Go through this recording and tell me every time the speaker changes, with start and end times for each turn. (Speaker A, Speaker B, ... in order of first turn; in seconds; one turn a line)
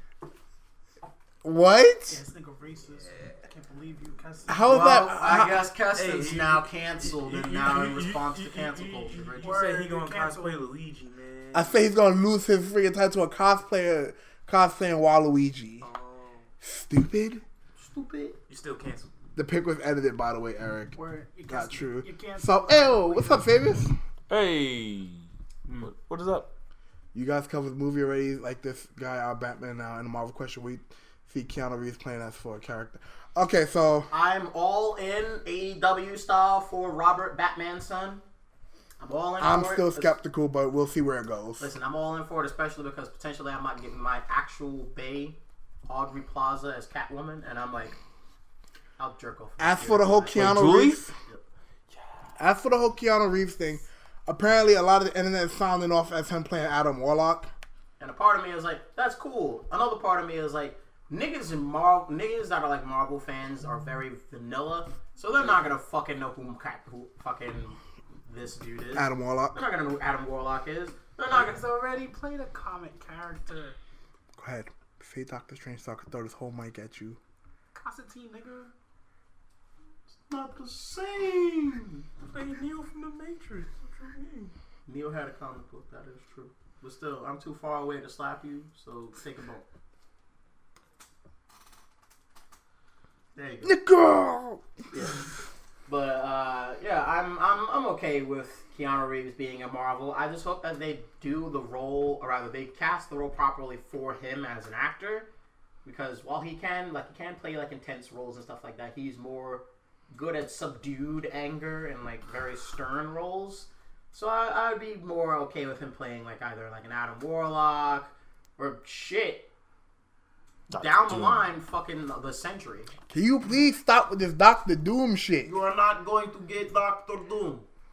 Speaker A: 1.4-2.2
Speaker B: 2.1-5.1
Speaker C: 3.0-3.3
Speaker A: 4.5-5.7
Speaker D: 4.7-9.6
Speaker C: 5.9-11.8
Speaker B: 9.4-10.6
Speaker A: 11.5-15.9
Speaker C: 15.8-16.5
Speaker A: 16.6-17.4
Speaker D: 17.8-18.4
Speaker C: 18.5-19.1
Speaker A: 19.4-23.9
Speaker B: 20.9-23.5
Speaker E: 24.3-25.3
Speaker E: 25.8-26.5
Speaker A: 27.1-34.1
Speaker D: 34.1-38.2
Speaker D: 39.0-40.2
Speaker A: 39.4-41.7
Speaker D: 41.6-48.0
Speaker D: 49.0-50.5
Speaker A: 49.6-51.1
Speaker E: 50.3-51.0
Speaker A: 52.4-57.5
Speaker D: 58.0-71.6
Speaker A: 68.9-69.6
Speaker B: 71.3-73.8
Speaker A: 74.3-77.2
Speaker B: 77.7-78.7
Speaker D: 80.3-82.0
Speaker C: 82.3-84.5
Speaker D: 84.9-89.6
Speaker D: 93.3-93.8
Speaker A: 93.6-94.6
Speaker D: 94.9-95.2
Speaker D: 95.8-105.3
Speaker D: 105.8-119.5
Speaker E: 120.7-121.5
Speaker D: 120.8-122.9
Speaker A: 123.1-125.5
Speaker D: 125.4-127.7